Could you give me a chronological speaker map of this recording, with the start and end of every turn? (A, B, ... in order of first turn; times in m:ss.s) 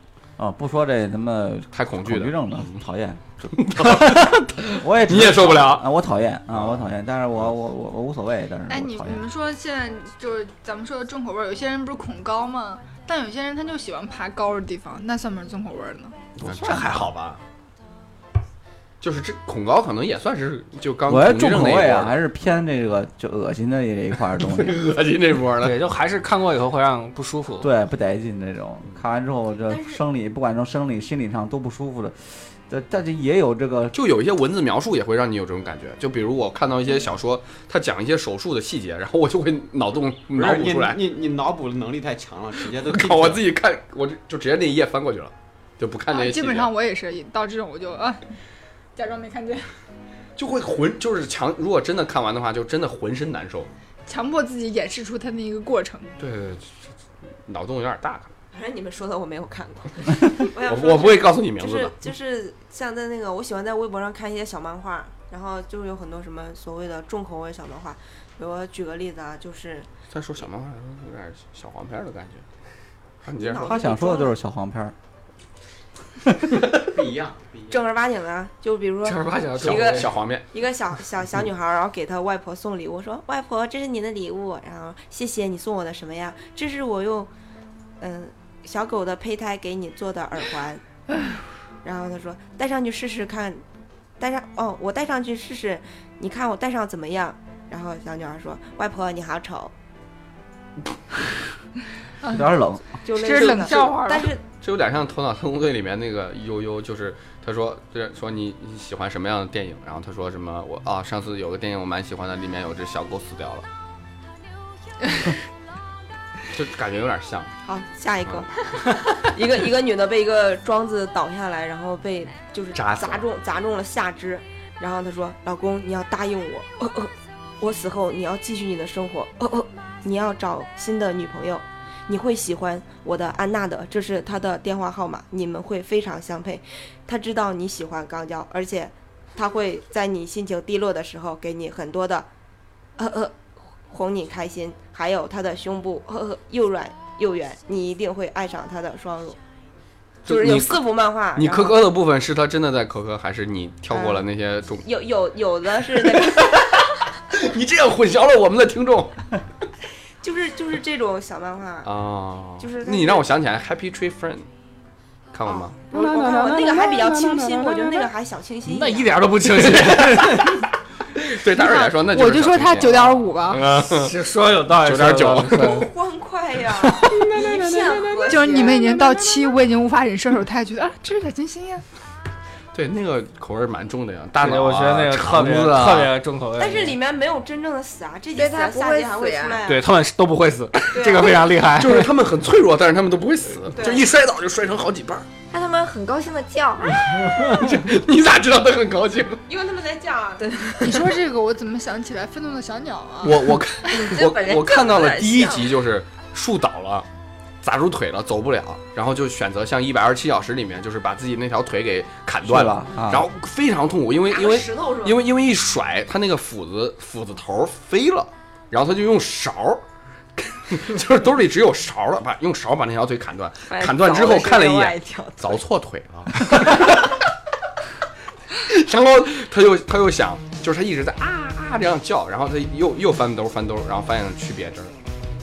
0:00.4-0:09.2 A
0:01.7-0:02.6 B
0:03.5-0:05.9 B
0:06.5-0:06.9 B
0:08.7-0:17.1 C
0:16.4-0:17.4 B
0:19.0-0:22.2 B
0:21.1-0:24.8 A
0:24.4-0:25.8 B
0:25.6-0:27.7 D
0:27.6-0:34.0 A
0:33.9-0:41.0 B
0:40.3-0:43.4 E
0:42.9-0:46.7 B
0:46.1-0:48.2 C
0:49.0-0:49.7 C
0:50.4-0:53.7 B
0:54.1-0:56.1 C
0:56.2-0:56.9 B
0:57.4-0:58.3 B
0:58.5-1:09.9 F
1:00.7-1:01.9 B
1:10.1-1:12.4 B
1:13.2-1:13.7 B
1:13.4-1:14.3 F
1:13.6-1:14.9 A
1:16.7-1:17.8 E
1:17.7-1:27.3 F
1:19.0-1:20.2 D
1:19.6-1:20.4 B
1:28.0-1:30.8 F
1:31.8-1:33.6 F
1:34.2-1:39.7 F
1:42.3-1:43.0 A
1:43.0-1:44.4 F
1:43.1-1:44.3 C
1:44.6-1:53.6 B
1:56.5-1:57.6 B
1:57.7-1:58.5 F
1:59.0-2:22.3 F
2:02.8-2:03.2 B
2:23.0-2:23.4 F
2:23.9-2:29.4 F
2:30.3-2:34.9 B
2:30.3-2:31.8 F
2:33.9-2:34.3 F
2:34.8-2:36.9 F
2:36.1-2:36.6 B
2:37.3-2:39.2 B
2:40.2-2:41.9 F
2:41.8-2:44.5 B
2:42.6-2:43.3 F
2:45.3-2:48.1 B
2:45.5-2:49.3 F
2:48.7-2:50.6 D
2:49.6-2:50.6 B
2:51.3-2:53.0 B
2:51.5-2:53.6 C
2:52.9-2:55.9 D
2:53.5-2:54.2 B
2:54.7-2:55.9 B
2:55.6-2:59.3 F
2:56.8-2:57.4 D
2:57.3-2:58.2 B
2:58.3-3:01.8 C
3:02.7-3:06.1 B
3:04.4-3:07.0 D
3:06.6-3:09.8 F
3:08.4-3:09.6 G
3:09.6-3:12.1 D
3:10.9-3:11.4 F
3:11.8-3:15.3 B
3:13.8-3:14.1 F
3:15.5-3:17.0 G
3:17.3-3:19.4 B
3:19.5-3:20.5 F
3:20.4-3:21.1 G
3:20.8-3:23.4 C
3:23.2-3:27.1 B
3:23.9-3:25.8 G
3:27.6-3:39.8 B
3:32.4-3:33.3 A
3:34.3-3:35.2 F
3:40.4-3:47.2 B
3:43.7-3:45.5 G
3:48.6-3:54.9 B